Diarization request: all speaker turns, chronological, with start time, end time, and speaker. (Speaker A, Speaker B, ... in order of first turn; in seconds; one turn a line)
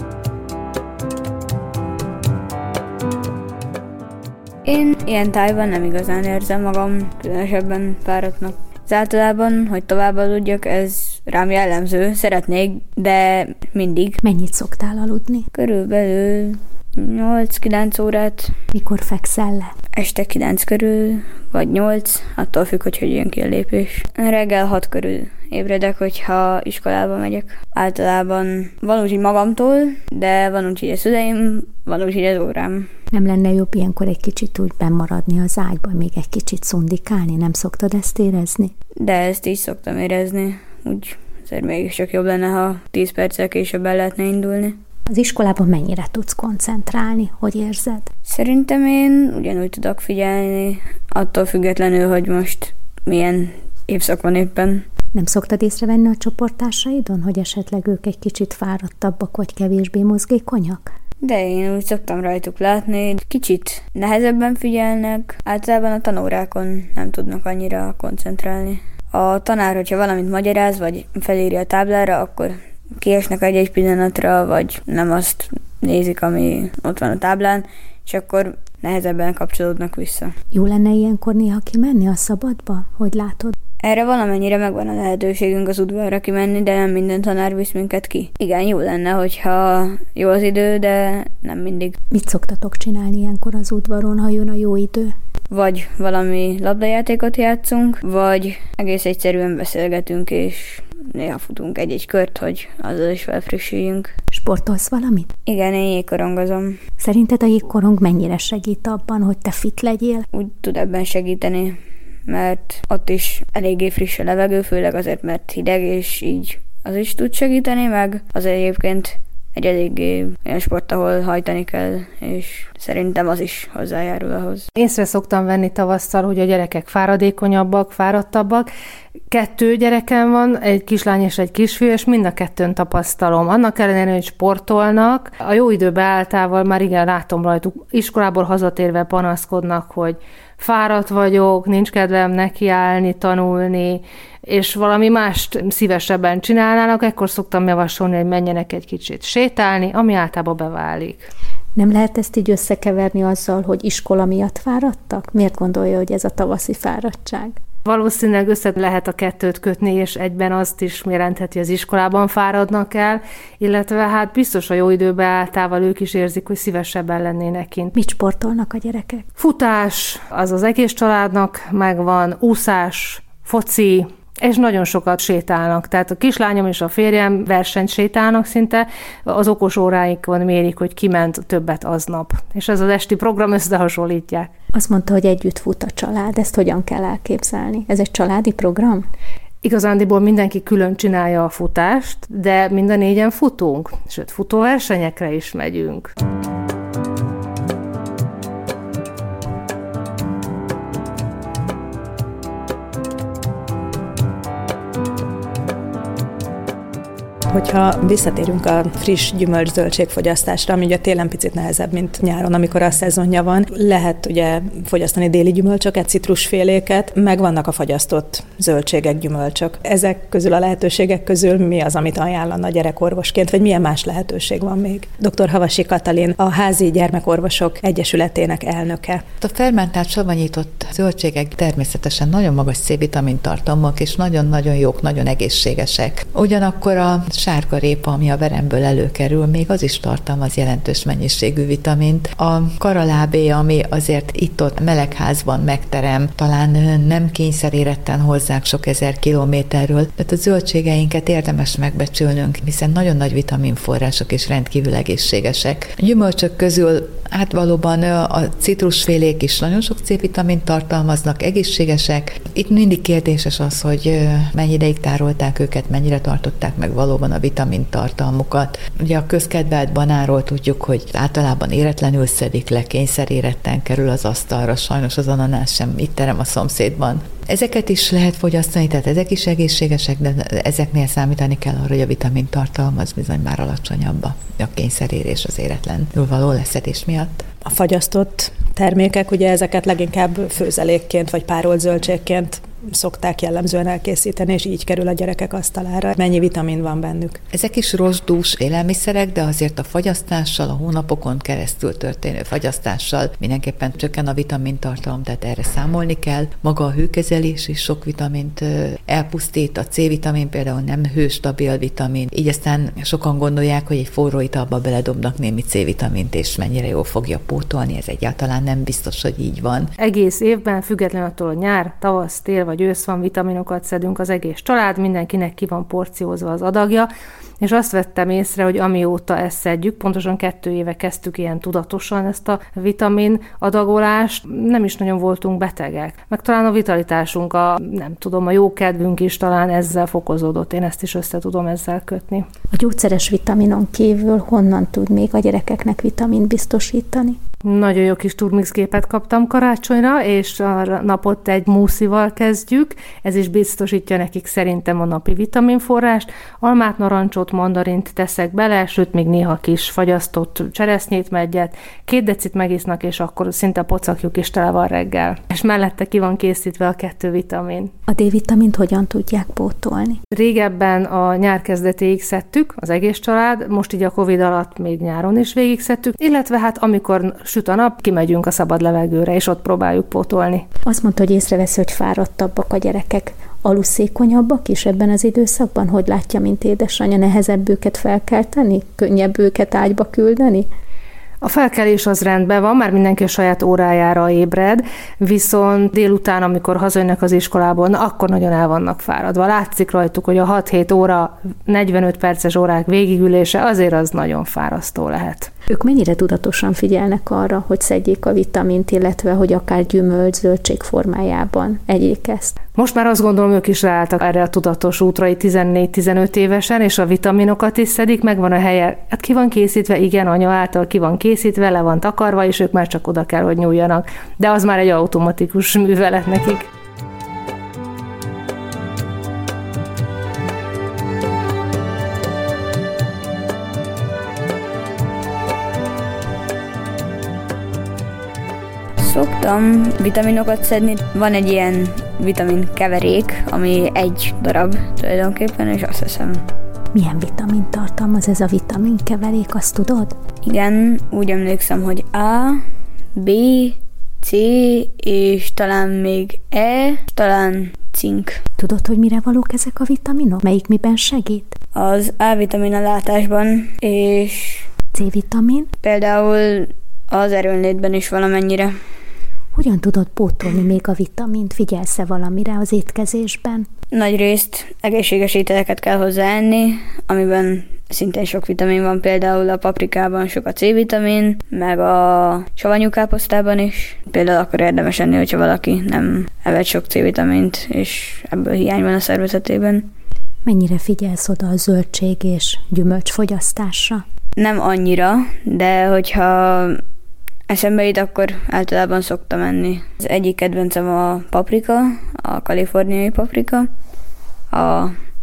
Speaker A: 4.6-14.2
Speaker B: 14.2-15.5
Speaker A: 15.5-18.5
Speaker B: 18.7-19.7
Speaker A: 19.9-32.9
Speaker B: 33.1-38.7
Speaker A: 39.0-44.8
Speaker B: 45.1-48.1
Speaker A: 48.3-54.9
Speaker B: 55.1-60.9
Speaker A: 61.2-80.3
Speaker B: 80.5-83.5
Speaker A: 83.8-92.0
Speaker B: 92.1-95.1
Speaker A: 95.5-104.1
Speaker B: 104.3-105.3
Speaker A: 105.5-106.8
Speaker B: 107.0-110.2
Speaker A: 110.3-124.7
Speaker C: 124.8-128.7
Speaker C: 129.3-151.3
Speaker B: 151.8-157.6
Speaker C: 157.8-167.9
Speaker B: 167.9-169.2
Speaker C: 169.4-184.5
Speaker B: 184.7-189.1
Speaker C: 189.6-196.1
Speaker D: 207.5-229.2
Speaker E: 229.4-287.4
Speaker D: 287.6-297.4
Speaker E: 297.5-319.9
Speaker C: 320.0-327.1
Speaker C: 327.6-342.5
Speaker B: 342.7-347.4
Speaker C: 347.6-367.9
Speaker B: 368.1-370.2
Speaker C: 370.3-380.6
Speaker B: 380.9-390.7
Speaker C: 391.4-405.5
Speaker B: 405.7-412.6
Speaker C: 412.8-426.7
Speaker A: 439.0-446.4
Speaker B: 446.9-450.1
Speaker A: 450.4-452.6
Speaker A: 453.1-458.4
Speaker B: 458.6-461.6
Speaker A: 461.7-464.7
Speaker B: 464.9-465.7
Speaker A: 465.8-468.7
Speaker B: 469.5-473.7
Speaker A: 473.9-489.9
Speaker B: 490.4-494.0
Speaker A: 494.4-496.8
Speaker A: 497.5-503.7
Speaker A: 504.5-504.9